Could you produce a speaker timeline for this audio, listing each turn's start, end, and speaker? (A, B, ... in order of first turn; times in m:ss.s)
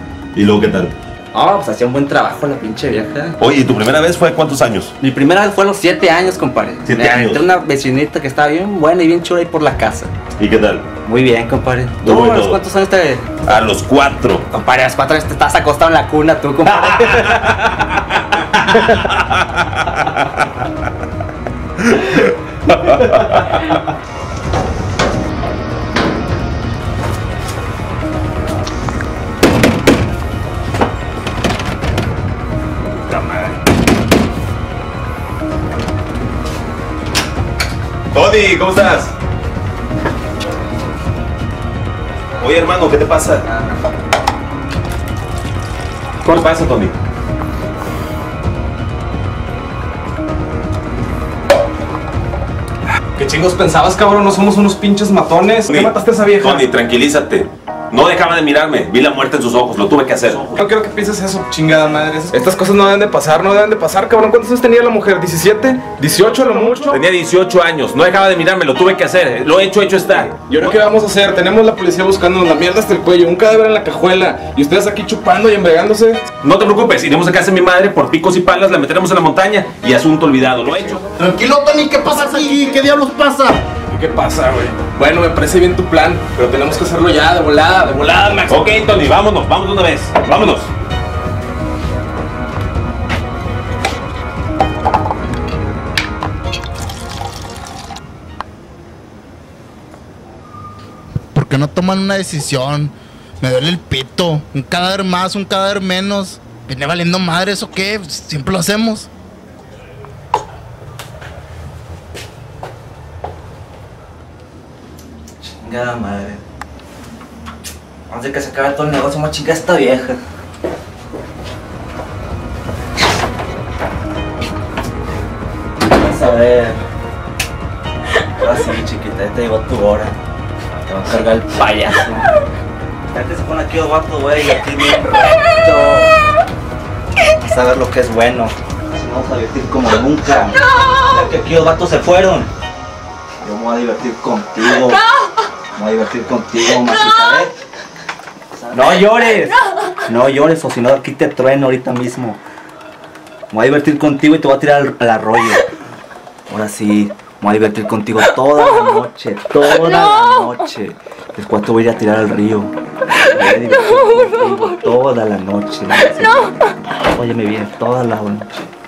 0:00.3-0:01.0 A
0:01.3-0:03.4 B
0:03.4-0:04.9 A
0:05.0-0:10.1 B
0:06.8-0:07.5 A
0:10.4-0:10.8 A
0:11.0-0:13.3 B
0:12.0-0:12.6 A
0:13.4-0:14.5 A
0:14.5-0:17.6 B
0:17.1-0:17.5 A
0:18.7-0:19.2 A
0:22.9-0:23.4 A
0:38.1-0:39.1 A
0:42.4-0:43.4 A
0:46.2-0:46.9 A
0:53.2-0:56.7 C
0:55.7-1:00.5 A
1:00.5-1:07.0 C
1:06.9-1:10.5 A
1:10.3-1:16.3 C
1:16.4-1:21.0 A
1:21.1-1:23.6 D
1:23.9-1:28.8 C
1:28.5-1:30.7 A
1:41.3-1:49.1 D
1:55.4-1:56.4 B
1:58.1-2:00.2 B
2:05.8-2:06.8 B
2:08.4-2:10.2 B
2:10.8-2:12.4 B
2:13.1-2:16.2 B
2:17.4-2:22.5 B
2:23.4-2:25.0 B
2:25.8-2:27.5 B
2:28.5-2:32.4 B
2:33.5-2:35.7 B
2:36.5-2:42.7 B
2:43.2-2:48.7 B